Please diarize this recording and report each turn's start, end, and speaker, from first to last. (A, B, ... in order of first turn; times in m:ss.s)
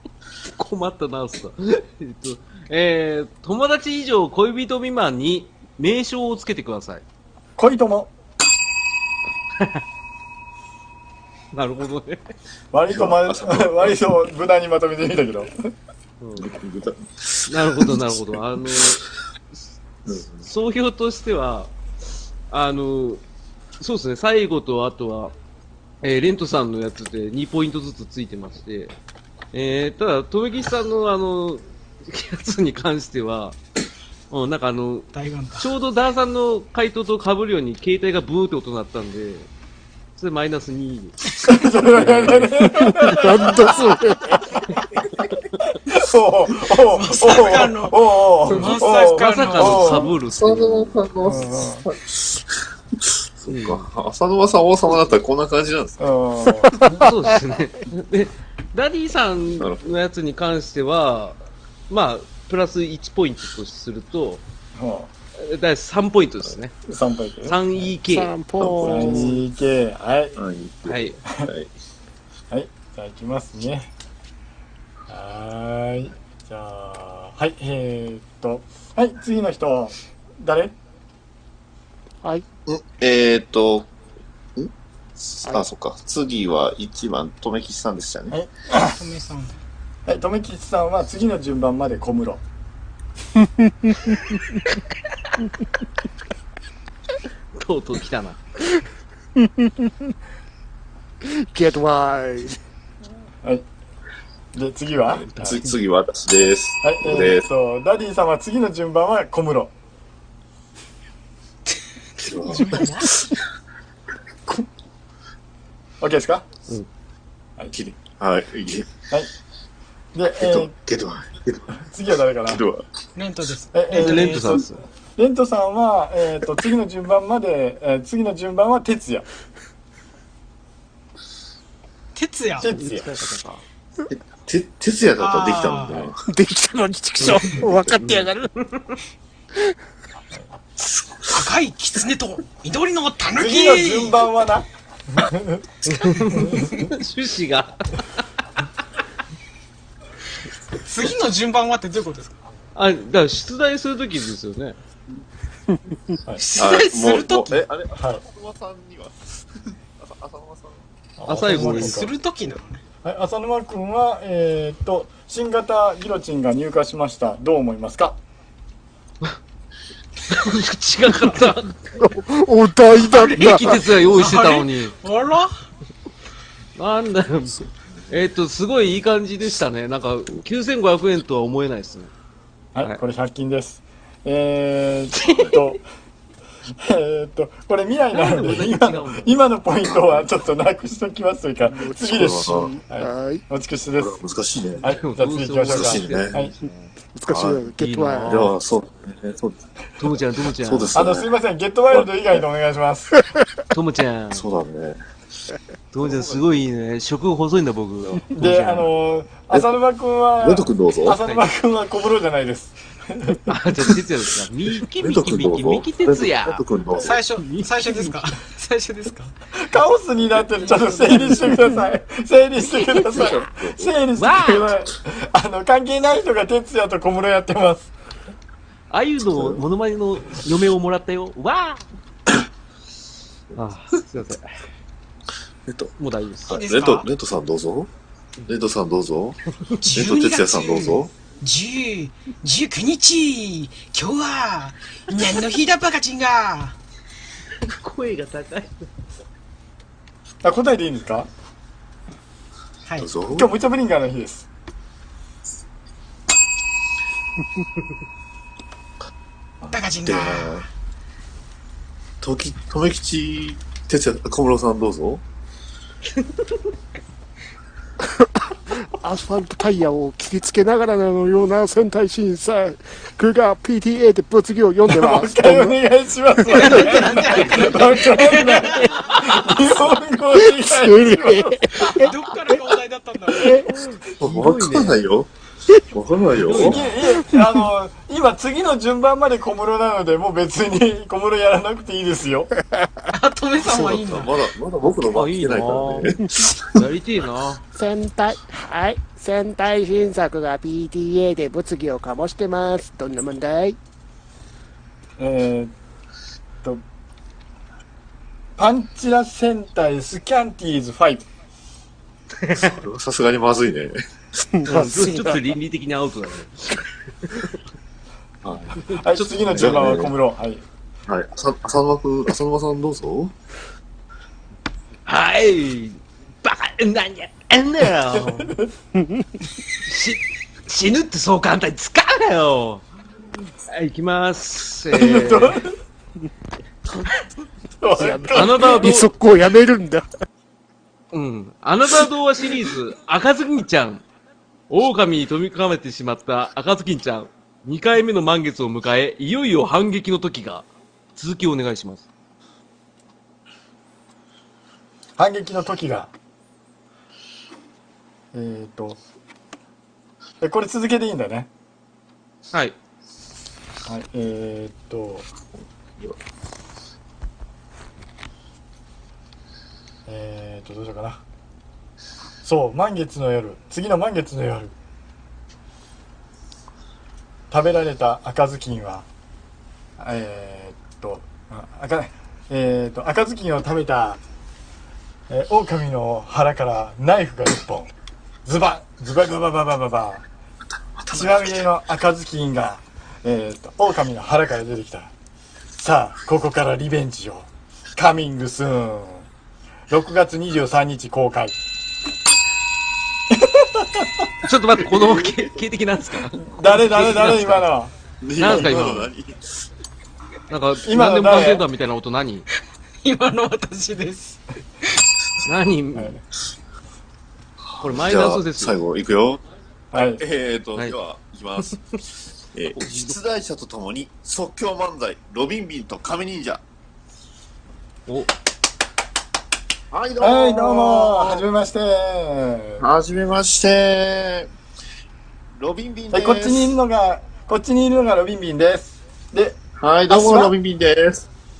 0:00.4-0:07.0 A
0:07.6-0:08.1 B
0:09.6-0:09.8 A
0:11.5-0:12.3 A
0:12.7-0:15.5 B
0:12.9-0:14.0 C
0:16.2-0:16.5 A
0:16.4-0:19.0 C
0:17.5-0:19.0 A
0:20.0-0:20.5 C
0:20.4-0:21.7 A
0:22.5-0:23.2 A
0:23.8-0:25.3 A
0:26.0-0:29.0 A
0:29.5-0:33.6 A
0:34.3-0:39.5 A
0:35.1-0:35.7 D
0:40.2-0:41.3 A
0:41.4-0:43.9 B
0:41.8-0:43.1 A
0:42.7-0:44.3 E
0:45.8-0:50.1 B
0:46.9-0:50.0 D
0:48.6-0:51.5 A
0:50.2-0:52.4 C
0:51.2-0:51.8 B
0:53.0-0:56.0 C
0:53.5-0:53.9 A
0:56.0-0:56.8 B
0:56.9-1:04.4 A
0:59.6-1:00.0 C
1:04.8-1:05.1 B
1:05.4-1:06.8 A
1:06.9-1:07.9 B
1:07.4-1:08.4 A
1:08.1-1:09.4 E
1:08.6-1:09.3 C
1:08.8-1:10.4 B
1:10.4-1:11.7 C
1:10.8-1:11.2 A
1:12.5-1:13.9 B
1:15.1-1:20.8 B
1:22.7-1:23.9 C
1:24.6-1:28.3 C
1:28.3-1:29.0 B
1:28.9-1:29.6 D
1:30.1-1:32.4 B
1:33.8-1:34.4 E
1:37.5-1:38.4 A
1:39.4-1:39.9 E
1:41.2-1:42.6 E
1:44.5-1:45.5 B
1:45.2-1:45.8 A
1:45.3-1:47.4 C
1:46.8-1:49.7 B
1:52.2-1:53.3 C
1:52.3-1:53.3 D
1:56.0-1:56.5 B
1:57.7-1:58.9 C
2:00.1-2:00.7 B
2:00.4-2:01.7 C
2:01.8-2:02.6 B
2:02.4-2:02.8 C
2:03.2-2:04.6 D
2:03.7-2:04.4 B
2:03.9-2:04.8 A
2:05.2-2:09.2 B
2:12.1-2:12.7 D
2:12.6-2:13.1 B
2:12.7-2:13.6 A
2:14.1-2:16.2 C
2:15.2-2:16.1 D
2:16.3-2:18.5 E
2:17.2-2:18.9 A
2:20.8-2:21.4 C
2:21.3-2:24.2 D
2:23.4-2:25.6 B
2:25.8-2:28.4 A
2:30.8-2:32.4 D
2:32.7-2:34.8 A
2:36.4-2:37.6 D
2:36.6-2:40.8 C
2:37.9-2:38.2 B
2:41.2-2:42.1 B
2:41.3-2:42.0 A
2:41.5-2:42.8 D
2:43.0-2:48.2 B
2:50.3-2:52.0 A
2:52.0-2:53.8 E
2:53.1-2:55.5 D
2:53.3-2:54.9 A
2:56.8-2:57.6 A
2:58.1-3:02.1 A
3:02.7-3:05.8 B
3:05.2-3:05.6 A
3:05.3-3:05.5 C
3:06.8-3:14.2 B
3:08.1-3:09.4 A
3:09.9-3:10.2 C
3:11.8-3:13.4 E
3:12.0-3:12.7 C
3:14.0-3:15.0 C
3:14.8-3:16.5 B
3:14.9-3:16.9 A
3:15.7-3:16.4 C
3:17.1-3:18.5 E
3:17.3-3:17.6 C
3:17.8-3:18.5 A
3:18.2-3:21.3 C
3:20.0-3:21.0 A
3:20.9-3:23.2 B
3:23.7-3:24.4 A
3:24.3-3:25.0 C
3:25.9-3:28.9 A
3:26.0-3:26.6 C
3:28.3-3:33.4 B
3:30.4-3:31.2 C
3:31.2-3:31.5 A
3:33.5-3:38.2 A
3:35.0-3:37.2 C
3:37.0-3:39.3 D
3:39.5-3:47.9 B
3:40.6-3:41.5 D
3:41.1-3:41.3 A
3:42.6-3:43.5 A
3:43.1-3:43.9 C
3:44.2-3:44.7 A
3:48.9-3:51.8 A
3:49.2-3:49.6 C
3:53.5-3:54.5 A
3:55.7-3:55.9 C
3:56.0-3:56.6 A
3:56.5-3:57.9 C
3:56.5-3:57.1 D
3:58.4-3:59.4 C
3:59.8-4:06.8 D
3:59.9-4:01.1 C
4:07.6-4:08.9 A
4:10.4-4:11.3 B
4:13.0-4:13.5 C
4:13.3-4:14.5 B
4:19.6-4:20.7 C
4:19.7-4:20.7 D
4:22.2-4:25.2 C
4:28.8-4:35.8 E
4:34.8-4:41.9 B
4:36.5-4:39.1 D
4:40.7-4:42.1 E
4:41.9-4:43.6 D
4:43.3-4:43.7 E
4:44.1-4:45.0 A
4:44.1-4:45.3 C
4:45.9-4:46.8 C
4:46.4-4:46.8 A
4:46.6-4:52.5 B
4:53.1-4:54.4 D
4:53.6-4:56.9 C
4:55.0-4:56.1 A
4:56.7-4:57.6 A
4:57.7-5:03.8 E
5:05.2-5:05.7 B
5:08.6-5:11.3 B
5:12.4-5:12.7 A
5:12.5-5:14.0 C
5:14.5-5:15.4 E
5:14.6-5:17.6 A
5:18.4-5:18.8 C
5:18.8-5:20.0 A
5:19.0-5:20.6 B
5:19.5-5:20.1 C
5:21.1-5:23.3 C
5:25.0-5:28.5 A
5:28.4-5:28.6 B
5:29.8-5:32.8 A
5:33.6-5:35.6 A
5:34.9-5:35.7 B
5:37.8-5:38.9 B
5:38.0-5:40.1 E
5:38.3-5:39.1 A
5:41.1-5:44.0 A
5:44.7-5:52.0 A
5:55.2-5:56.1 B
5:58.3-5:59.0 B
6:00.4-6:01.5 B
6:03.9-6:05.3 B
6:10.1-6:11.2 B
6:12.4-6:14.7 B
6:17.5-6:19.0 B
6:20.0-6:24.2 B
6:25.3-6:27.9 B
6:28.4-6:30.2 B
6:31.0-6:31.5 C
6:31.1-6:35.1 B
6:35.8-6:39.3 B
6:39.9-6:41.6 B
6:43.3-6:44.1 B
6:44.4-6:47.6 A
6:44.9-6:45.6 C
6:46.4-6:49.0 B
6:48.2-6:49.6 C
6:48.4-6:49.1 A
6:50.5-6:52.4 A
6:50.8-6:51.6 B
6:53.0-6:54.4 D
6:55.4-6:56.2 A
6:57.6-6:59.4 C
6:57.8-6:58.7 A
6:59.9-7:00.2 B
6:59.9-7:02.0 C
7:02.5-7:06.6 C
7:02.7-7:03.2 A
7:08.1-7:08.3 A
7:09.9-7:11.4 C
7:10.2-7:12.8 B
7:12.8-7:14.5 C
7:15.6-7:16.8 C
7:16.1-7:20.5 B
7:19.8-7:21.2 C